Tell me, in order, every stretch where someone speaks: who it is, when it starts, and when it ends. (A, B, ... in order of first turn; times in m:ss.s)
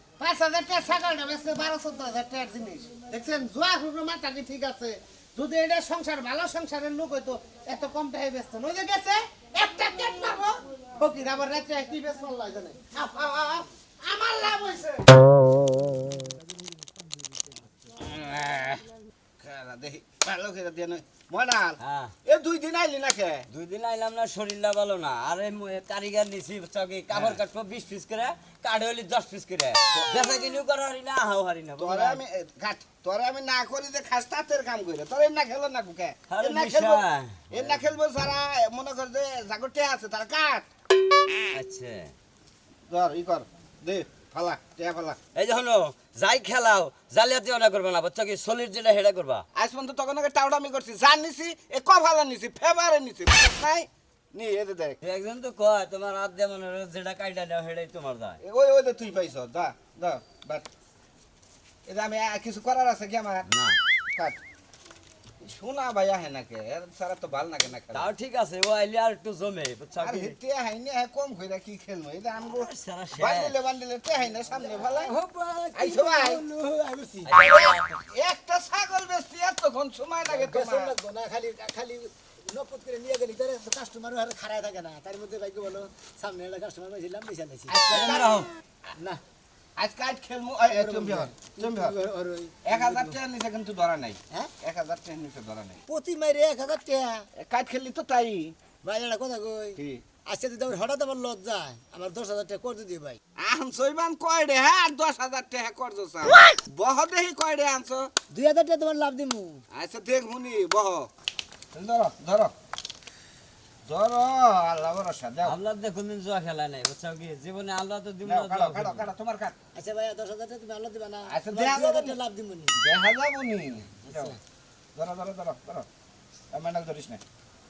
0:00.2-0:15.0 A
0:16.0-0:17.9 B
0:18.0-0:18.8 C
0:19.4-0:23.4 C
0:21.8-0:22.1 D
0:23.5-0:32.2 D
0:27.1-0:27.4 C
0:29.9-0:30.4 C
0:31.8-0:40.7 C
0:36.3-0:37.8 D
0:41.5-0:42.1 D
0:42.9-0:45.2 C
0:45.4-0:49.4 D
0:49.6-0:55.0 C
0:55.0-0:58.4 D
0:58.4-1:00.7 C
1:01.9-1:03.5 C
1:03.4-1:03.8 D
1:05.4-1:08.1 C
1:07.9-1:10.4 D
1:10.0-1:15.1 C
1:12.4-1:13.6 D
1:14.5-1:17.5 B
1:15.8-1:16.4 C
1:17.2-1:17.9 D
1:17.4-1:20.9 C
1:20.2-1:28.0 B
1:27.7-1:28.4 C
1:27.9-1:28.5 D
1:29.8-1:32.0 C
1:30.7-1:33.2 B
1:32.6-1:35.8 C
1:35.9-1:37.3 B
1:37.4-1:38.5 C
1:38.8-1:43.2 B
1:39.8-1:40.0 C
1:43.4-1:48.1 C
1:48.3-1:49.6 B
1:49.8-1:51.1 C
1:51.7-1:52.5 C
1:53.9-1:55.6 C
1:55.4-1:59.1 D
1:58.2-1:59.6 C
1:59.8-2:02.8 B
2:01.3-2:02.2 C
2:02.8-2:04.4 C
2:04.1-2:04.4 B
2:05.0-2:05.9 C
2:06.5-2:07.2 C